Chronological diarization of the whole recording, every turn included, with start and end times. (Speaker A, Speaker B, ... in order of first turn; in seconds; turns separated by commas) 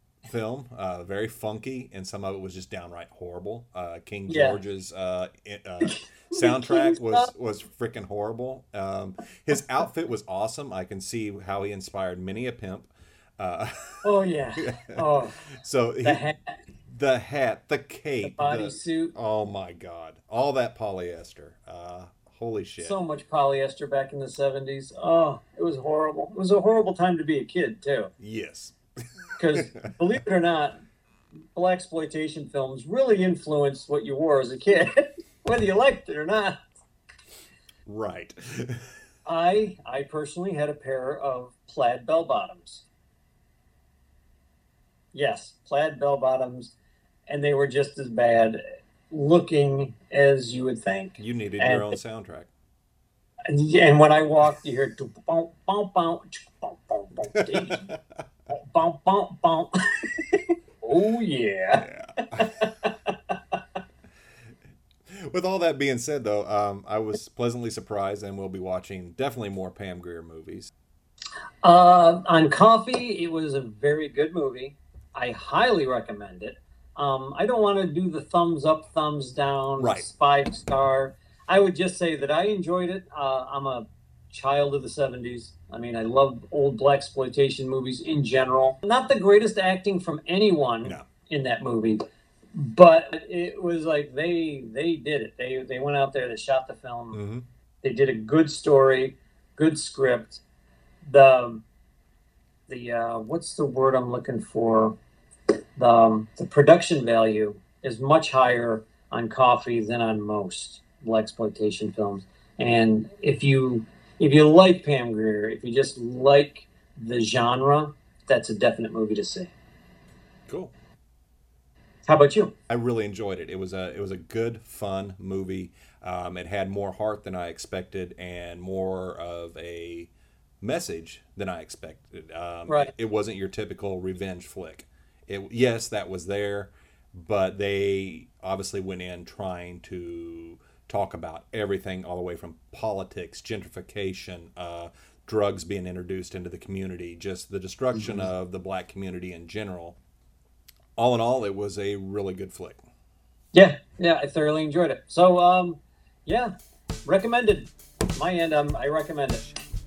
Speaker A: 0.2-14.1, Speaker B: 4.3-4.6, Speaker B: 5.8-7.3, Speaker B: 14.0-15.4, Speaker A: 14.7-15.0, Speaker A: 15.5-16.2, Speaker B: 16.0-16.6, Speaker A: 16.9-23.0, Speaker B: 18.2-19.1, Speaker B: 22.8-28.1, Speaker A: 28.2-28.8, Speaker B: 29.4-30.8, Speaker B: 31.5-36.5, Speaker A: 37.9-38.9, Speaker B: 39.2-42.8, Speaker B: 45.1-46.7, Speaker B: 47.3-52.0, Speaker A: 51.2-52.5, Speaker B: 53.5-57.9, Speaker A: 57.3-57.9, Speaker B: 58.5-63.5, Speaker A: 61.8-62.5, Speaker A: 65.1-70.7, Speaker B: 71.6-92.0, Speaker A: 79.8-80.1, Speaker B: 92.5-97.2, Speaker A: 97.1-97.4, Speaker B: 97.8-100.4, Speaker B: 101.0-101.6, Speaker B: 102.7-105.0, Speaker B: 105.8-119.5, Speaker A: 120.5-120.7, Speaker B: 122.0-122.5, Speaker A: 122.7-150.0, Speaker A: 151.0-152.8, Speaker B: 153.5-156.5, Speaker B: 157.0-159.6